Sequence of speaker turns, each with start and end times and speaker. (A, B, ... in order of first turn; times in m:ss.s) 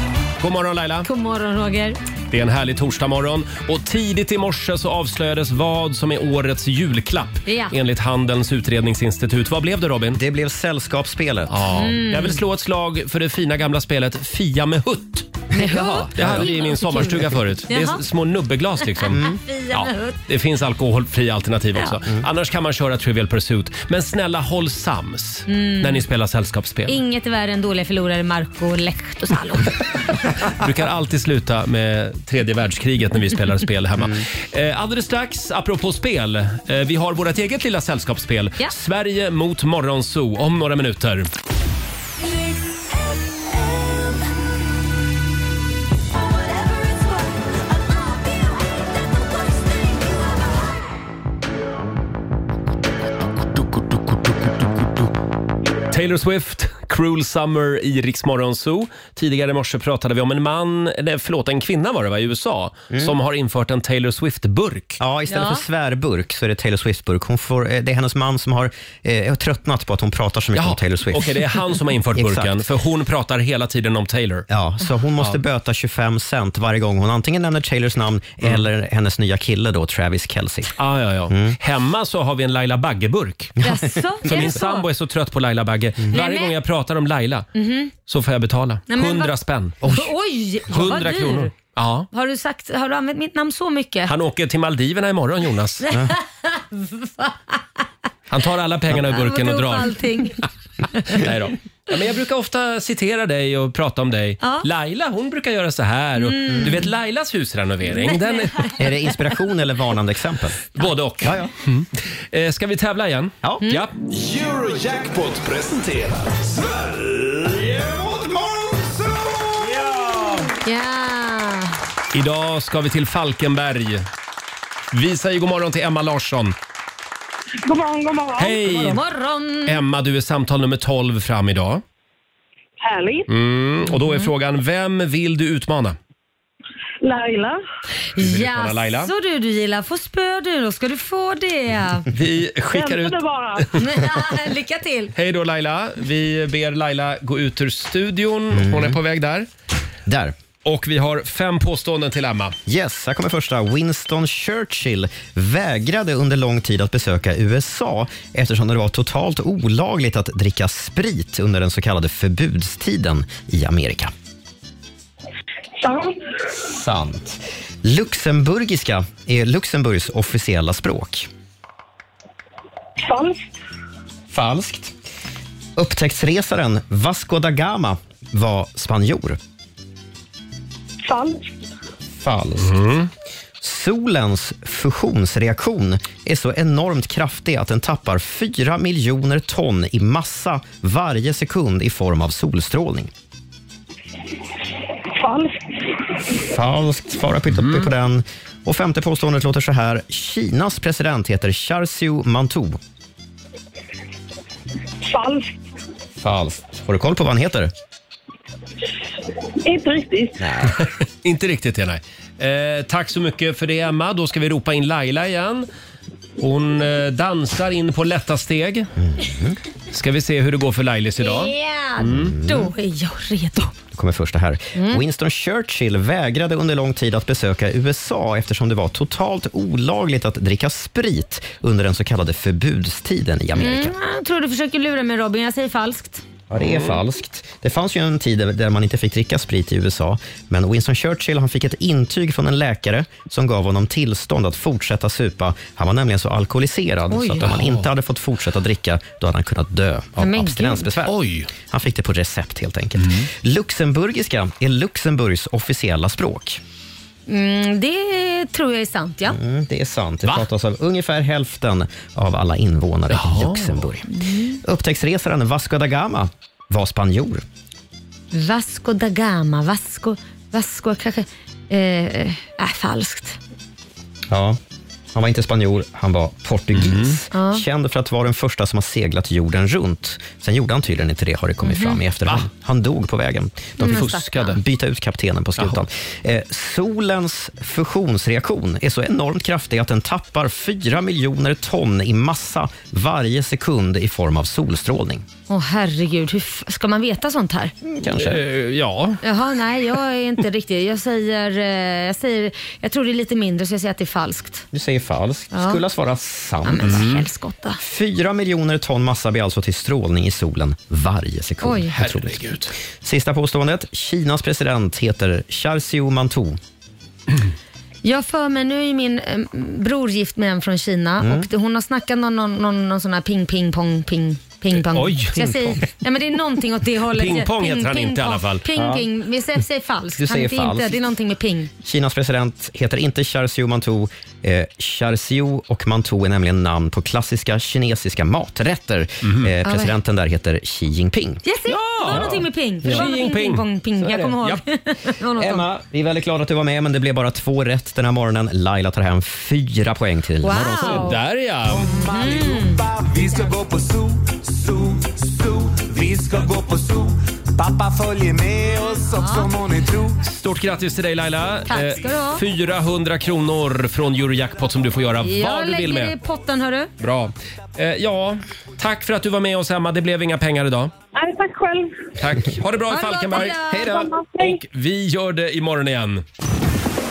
0:00.4-0:01.1 A
0:01.0-0:02.0 B
0:02.3-0:10.2 A
0:07.4-0:07.7 B
0:10.1-0:11.7 C
0:11.5-0:15.3 A
0:11.7-0:12.4 B
0:15.5-0:16.5 C
0:15.6-0:18.0 B
0:16.2-0:27.0 A
0:19.0-0:20.2 B
0:19.1-0:19.4 C
0:25.5-0:26.0 B
0:26.9-0:29.8 B
0:30.4-0:41.3 A
0:55.9-1:05.0 A
1:02.9-1:03.2 C
1:05.0-1:11.5 C
1:05.3-1:05.6 B
1:10.5-1:14.4 A
1:12.1-1:12.6 C
1:14.5-1:20.7 C
1:20.8-1:23.6 A
1:21.3-1:21.6 C
1:23.6-1:24.5 C
1:23.6-1:24.8 B
1:24.2-1:27.5 A
1:26.1-1:26.5 B
1:27.5-1:27.9 B
1:28.0-1:29.8 A
1:28.9-1:31.5 B
1:29.8-1:30.1 C
1:30.7-1:32.1 A
1:32.1-1:34.1 B
1:34.1-1:35.8 A
1:35.8-1:37.8 B
1:38.3-1:40.0 A
1:38.9-1:40.4 B
1:40.9-1:41.2 B
1:41.1-1:48.8 A
1:44.4-1:44.6 B
1:46.2-1:46.8 B
1:46.5-1:46.8 C
1:47.9-1:48.4 B
1:48.8-1:50.6 C
1:50.7-1:53.9 A
1:51.2-1:51.5 C
1:54.0-1:59.8 D
2:00.6-2:01.7 B
2:02.1-2:04.0 A
2:04.9-2:06.5 A
2:07.6-2:08.7 E
2:08.4-2:09.0 A
2:08.6-2:09.8 B
2:09.6-2:11.8 A
2:12.8-2:13.3 E
2:13.3-2:16.0 A
2:13.9-2:14.3 B
2:17.0-2:17.6 E
2:18.1-2:22.0 B
2:18.2-2:19.1 A
2:22.1-2:23.8 A
2:22.7-2:23.8 E
2:23.7-2:25.1 B
2:25.1-2:29.5 A
2:28.5-2:29.0 C
2:30.0-2:30.4 C
2:30.6-2:32.5 A
2:32.6-2:44.1 C
2:45.8-2:46.2 E
2:46.5-2:51.3 C
2:53.0-2:53.4 E
2:54.3-2:54.9 C
2:55.8-2:59.4 C
3:01.0-3:01.5 E
3:02.2-3:02.8 C
3:02.6-3:03.1 A
3:03.6-3:13.1 C
3:15.2-3:15.5 E
3:16.2-3:22.8 C
3:17.5-3:17.9 A
3:25.0-3:25.5 E
3:26.2-3:27.7 C
3:29.6-3:30.4 E
3:30.4-3:30.8 C
3:31.2-3:35.7 A
3:36.4-3:38.9 A
3:39.0-3:39.6 C
3:39.9-3:42.3 A
3:41.2-3:43.7 B
3:42.1-3:42.7 C
3:43.9-3:53.9 C
3:44.7-3:45.0 B
3:53.6-3:56.2 B
3:56.5-4:16.6 C
3:56.6-3:57.0 A
4:07.1-4:07.5 B
4:07.4-4:07.8 A
4:10.2-4:10.9 B
4:11.0-4:11.5 A
4:13.0-4:13.2 A
4:17.3-4:19.4 B
4:19.3-4:27.4 C
4:23.1-4:23.9 A
4:24.1-4:24.6 B
4:28.3-4:33.4 B
4:34.3-4:34.6 C
4:35.1-4:55.2 C
4:36.7-4:37.2 A
4:37.3-4:37.6 B
4:41.6-4:42.0 B
4:43.8-4:44.6 B
4:43.8-4:44.6 A
4:45.6-4:45.8 A
4:55.5-4:57.7 B
4:57.8-4:58.4 C
4:58.1-4:59.2 A
4:59.2-5:04.6 B
5:04.7-5:07.1 C
5:05.5-5:05.8 B
5:06.6-5:07.8 B
5:06.8-5:07.2 A
5:07.8-5:16.6 C
5:11.6-5:11.9 B
5:11.9-5:12.7 A
5:18.0-5:31.7 B
5:21.2-5:21.5 C
5:24.7-5:25.8 A
5:27.1-5:28.6 A
5:28.7-5:29.0 C
5:30.2-5:31.0 C
5:31.8-5:41.4 C
5:39.2-5:39.5 A
5:39.6-5:39.9 B
5:41.4-5:45.6 B
5:41.7-5:43.6 A
5:42.1-5:43.1 C
5:44.0-5:44.5 C
5:45.4-5:51.1 C
5:50.4-5:51.2 B
5:50.8-5:51.9 A
5:51.6-6:00.2 F
5:52.0-5:52.8 B
5:59.1-5:59.5 B
6:00.2-6:06.1 A
6:01.7-6:02.4 B
6:05.2-6:06.9 B
6:07.0-6:10.9 A
6:11.1-6:12.1 E
6:12.2-6:13.7 A
6:12.9-6:14.0 B
6:13.7-6:14.1 C
6:13.8-6:14.6 E
6:14.4-6:16.2 A